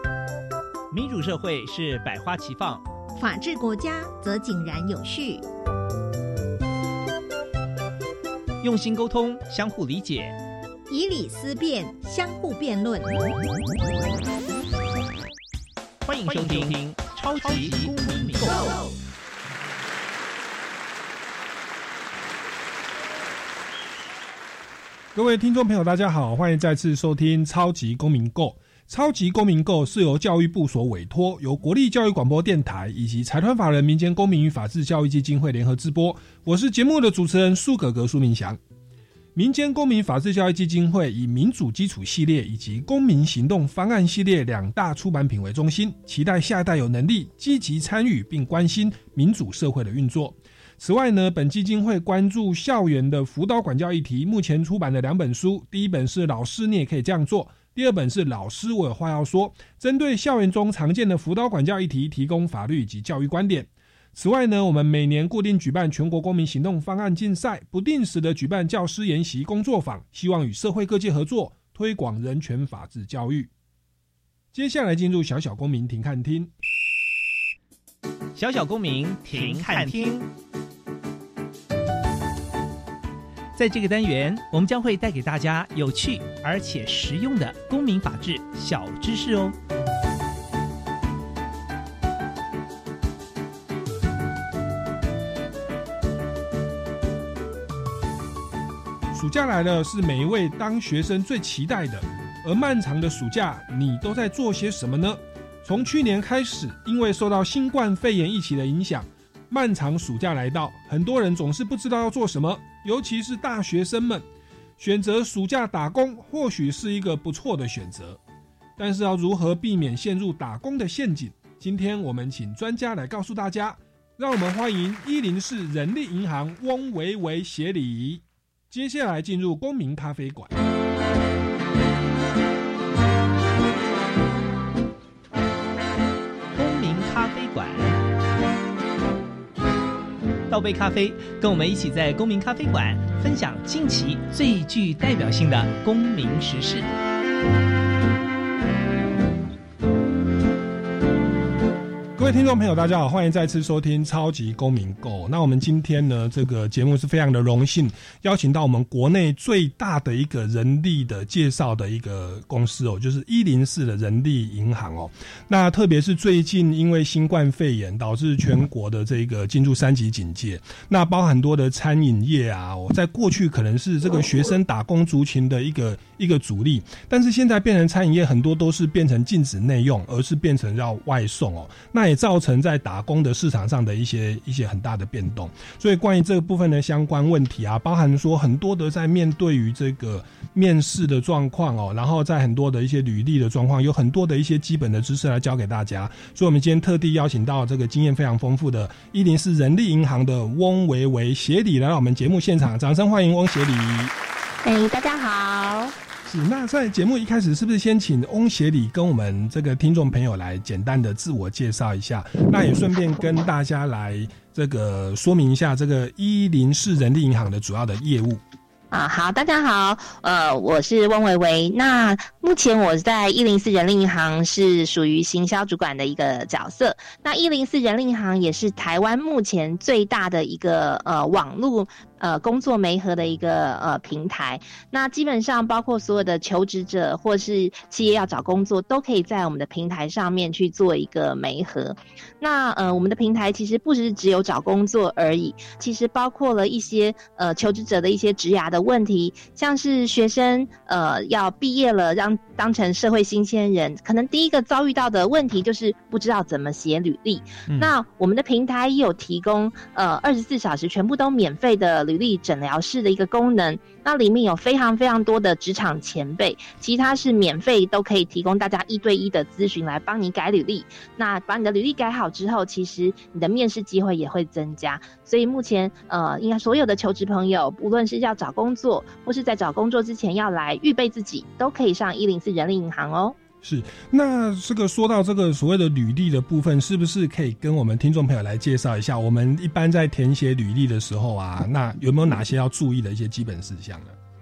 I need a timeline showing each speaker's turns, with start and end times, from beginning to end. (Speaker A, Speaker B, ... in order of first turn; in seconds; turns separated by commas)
Speaker A: 0.9-2.8, Speaker B: 3.2-5.4, Speaker A: 8.6-10.3, Speaker B: 10.9-13.3, Speaker A: 16.1-18.6, Speaker B: 18.4-18.9, Speaker C: 25.1-38.6, Speaker C: 39.4-73.5, Speaker C: 74.5-76.5, Speaker A: 78.4-80.3, Speaker A: 83.5-89.5, Speaker C: 99.1-114.2, Speaker C: 114.8-118.2, Speaker C: 118.8-130.6, Speaker A: 136.5-137.9, Speaker A: 140.5-146.9, Speaker C: 152.2-204.1, Speaker D: 204.6-205.9, Speaker C: 206.2-218.4, Speaker D: 218.9-283.4, Speaker C: 257.7-257.9, Speaker C: 283.6-294.1